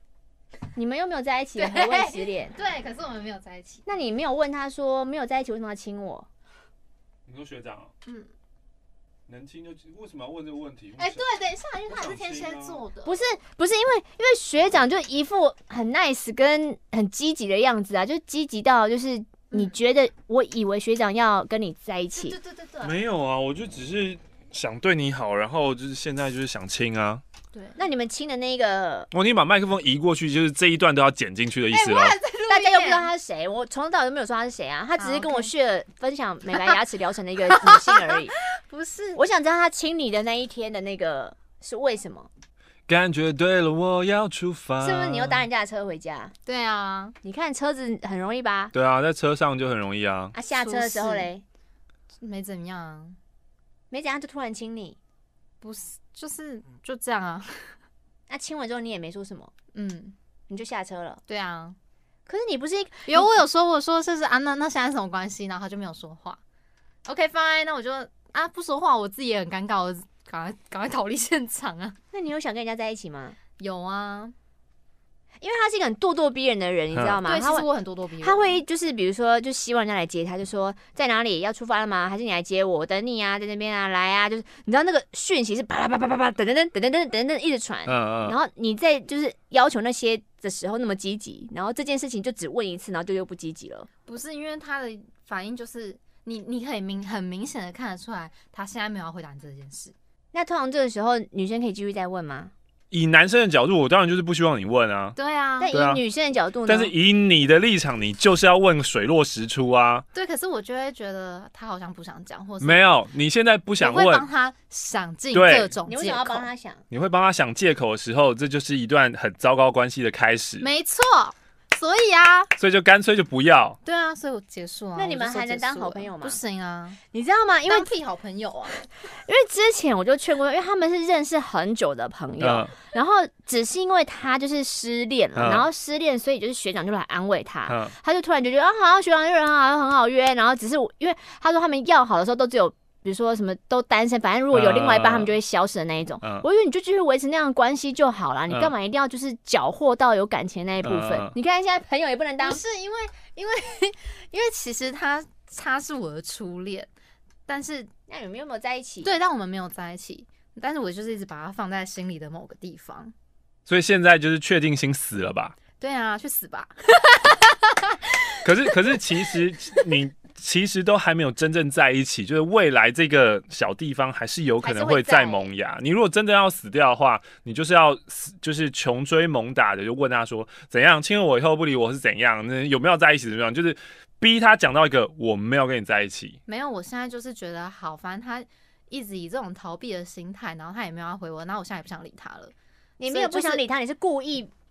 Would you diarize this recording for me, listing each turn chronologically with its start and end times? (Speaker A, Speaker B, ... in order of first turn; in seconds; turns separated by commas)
Speaker A: 0.7-2.6, Speaker B: 1.6-3.9, Speaker A: 3.9-6.3, Speaker C: 7.2-7.9, Speaker C: 9.3-11.2, Speaker B: 11.0-13.2, Speaker C: 11.9-12.8, Speaker A: 13.0-22.4, Speaker B: 22.1-23.0, Speaker C: 22.8-27.2, Speaker A: 27.8-29.1, Speaker C: 29.1-32.2, Speaker B: 31.7-33.1, Speaker A: 32.5-38.4, Speaker B: 35.0-35.5, Speaker B: 37.6-39.2, Speaker A: 39.1-42.3, Speaker C: 42.9-45.4, Speaker A: 44.8-46.3, Speaker B: 46.5-47.1, Speaker A: 47.2-48.7, Speaker C: 48.7-50.3, Speaker A: 50.3-51.4, Speaker B: 50.5-51.3, Speaker B: 52.2-53.2, Speaker A: 53.9-55.0, Speaker B: 55.6-57.7, Speaker A: 58.3-59.5, Speaker B: 59.7-60.1, Speaker A: 60.5-61.2, Speaker B: 61.3-61.8, Speaker A: 62.2-63.3, Speaker B: 63.1-66.4, Speaker B: 67.0-72.0, Speaker A: 72.1-73.4, Speaker B: 73.6-74.3, Speaker A: 75.4-77.7, Speaker C: 76.9-77.2, Speaker B: 77.2-78.6, Speaker A: 78.2-93.9, Speaker C: 87.9-88.4, Speaker B: 94.1-99.9, Speaker A: 100.3-102.5, Speaker C: 102.9-105.2, Speaker B: 105.2-105.7, Speaker A: 105.6-106.9, Speaker C: 105.7-106.0, Speaker C: 106.7-110.0, Speaker B: 110.1-112.9, Speaker C: 112.6-114.2, Speaker B: 113.8-116.5, Speaker C: 115.3-115.7, Speaker A: 115.8-116.8, Speaker C: 116.9-120.7, Speaker B: 120.6-122.5, Speaker C: 122.6-123.8, Speaker B: 123.8-127.0, Speaker A: 124.9-126.4, Speaker A: 127.1-127.9, Speaker B: 127.7-128.9, Speaker A: 129.1-152.6, Speaker C: 132.4-132.7, Speaker C: 135.3-135.7, Speaker C: 137.7-137.9, Speaker C: 144.5-145.3, Speaker C: 150.8-151.3, Speaker B: 152.4-156.9, Speaker B: 157.5-157.9, Speaker A: 158.1-159.1, Speaker B: 159.0-163.1, Speaker C: 163.7-165.5, Speaker B: 165.8-167.5, Speaker C: 168.4-186.4, Speaker A: 174.6-175.5, Speaker B: 186.5-192.5, Speaker A: 193.0-194.5, Speaker B: 193.1-193.6